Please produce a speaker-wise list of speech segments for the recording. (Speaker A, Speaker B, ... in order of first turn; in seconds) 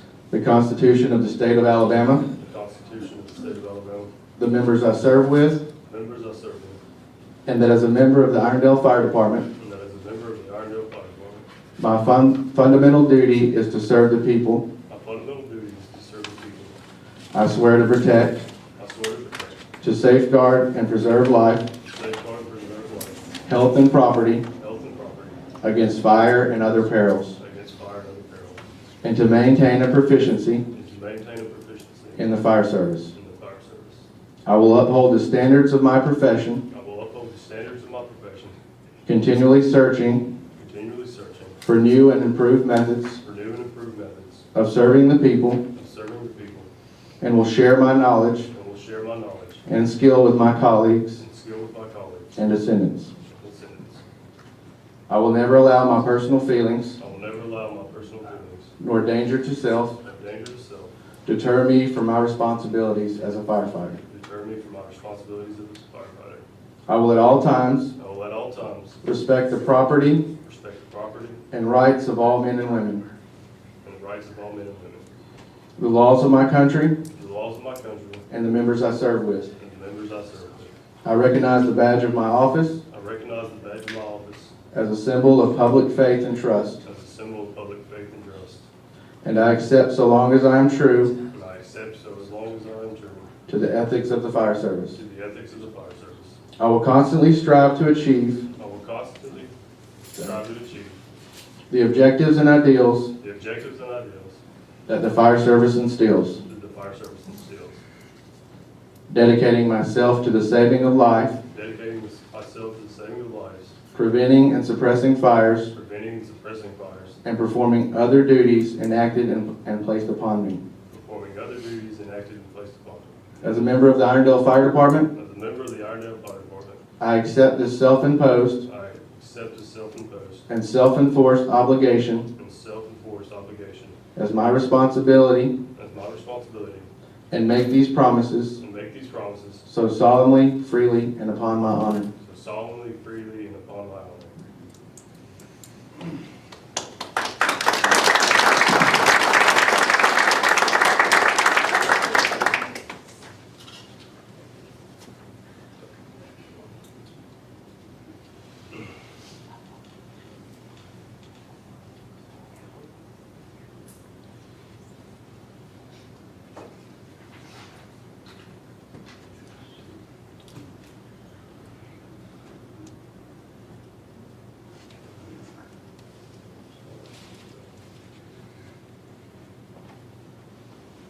Speaker A: 0.3-2.2, 4.4-5.6, 7.5-9.5, 11.8-14.7, 17.3-18.4, 19.8-21.6, 23.4-24.4, 25.6-27.4, 29.0-30.6, 32.1-33.1, 34.5-36.6, 39.0-40.2, 41.6-43.2, 44.5-45.6, 47.2-48.5, 49.6-51.2, 52.4-53.1, 55.1-57.0, 58.8-59.9, 61.2-64.0, 66.9-67.9, 69.0-70.2, 71.5-73.0, 75.8-77.0, 78.3-79.5, 81.0-82.8, 84.7-86.8, 89.2-91.1, 93.5-95.0, 96.6-98.4, 101.7-103.1, 104.9-106.4, 109.1-111.3, 113.9-115.7, 117.2-120.6, 123.4-125.1, 127.0-128.6, 130.5-132.2, 134.2-135.5, 137.3-138.6, 139.7-142.1
Speaker B: 2.4-4.1, 5.8-6.8, 9.6-11.5, 14.9-16.8, 18.8-19.6, 21.9-23.2, 24.6-25.4, 27.4-28.7, 30.7-32.2, 33.1-34.1, 36.7-38.5, 40.5-41.6, 43.2-44.5, 45.7-46.7, 48.5-49.6, 51.2-52.4, 53.2-54.0, 57.0-58.7, 60.0-60.9, 64.1-66.4, 68.0-69.0, 70.2-71.4, 73.8-75.0, 77.1-78.2, 79.5-80.7, 82.9-84.5, 86.8-88.7, 91.3-93.3, 94.9-96.4, 98.6-99.5, 100.1-101.0, 103.2-104.4, 106.4-107.8, 111.5-113.8, 115.7-117.2, 120.9-123.2, 125.1-126.8, 128.6-130.5, 132.3-134.0, 135.7-136.9, 138.6-139.7, 142.2-144.4, 176.8-177.6